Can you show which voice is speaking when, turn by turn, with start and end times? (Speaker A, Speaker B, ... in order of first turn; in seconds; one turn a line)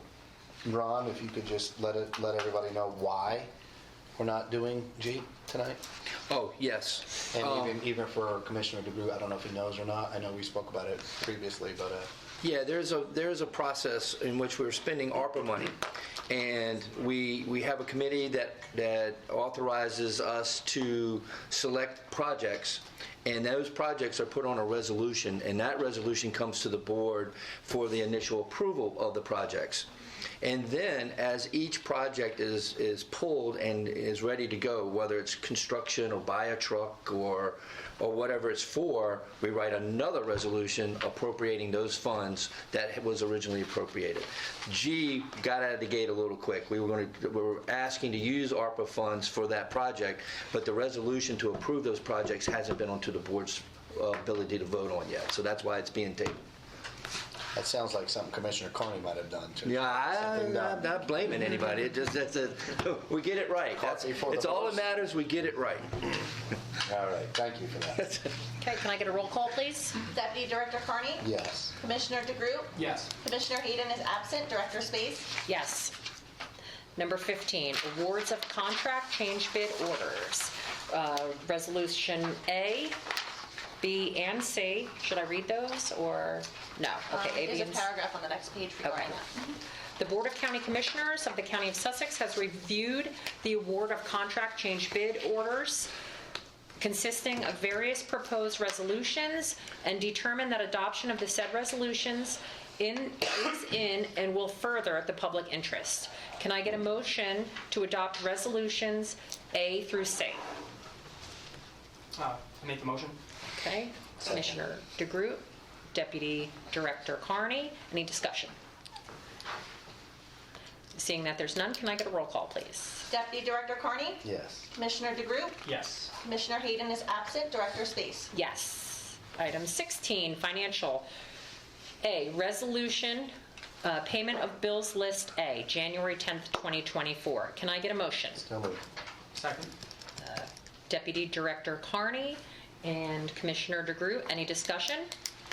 Speaker A: 0.6-3.5
Speaker A: 4.2-5.8
Speaker B: 6.3-7.0
Speaker A: 7.3-12.1
Speaker B: 12.4-15.8
Speaker B: 16.3-29.9
Speaker B: 30.4-56.4
Speaker A: 57.5-60.9
Speaker B: 59.7-63.7
Speaker A: 63.7-65.0
Speaker B: 64.9-66.0
Speaker A: 66.8-68.1
Speaker C: 68.6-70.0
Speaker D: 70.1-75.3
Speaker A: 71.2-71.7
Speaker E: 72.8-73.1
Speaker C: 75.5-75.9
Speaker C: 77.0-83.0
Speaker C: 83.8-87.9
Speaker D: 87.1-89.4
Speaker C: 88.8-89.2
Speaker C: 90.0-95.9
Speaker C: 96.8-110.4
Speaker E: 112.1-113.2
Speaker C: 113.5-118.5
Speaker C: 120.9-123.1
Speaker D: 123.1-124.2
Speaker A: 124.2-124.7
Speaker D: 124.7-125.7
Speaker E: 125.6-126.1
Speaker D: 126.2-128.3
Speaker C: 128.3-131.1
Speaker C: 132.0-138.4
Speaker A: 138.4-138.8
Speaker E: 139.3-139.7
Speaker C: 140.2-145.1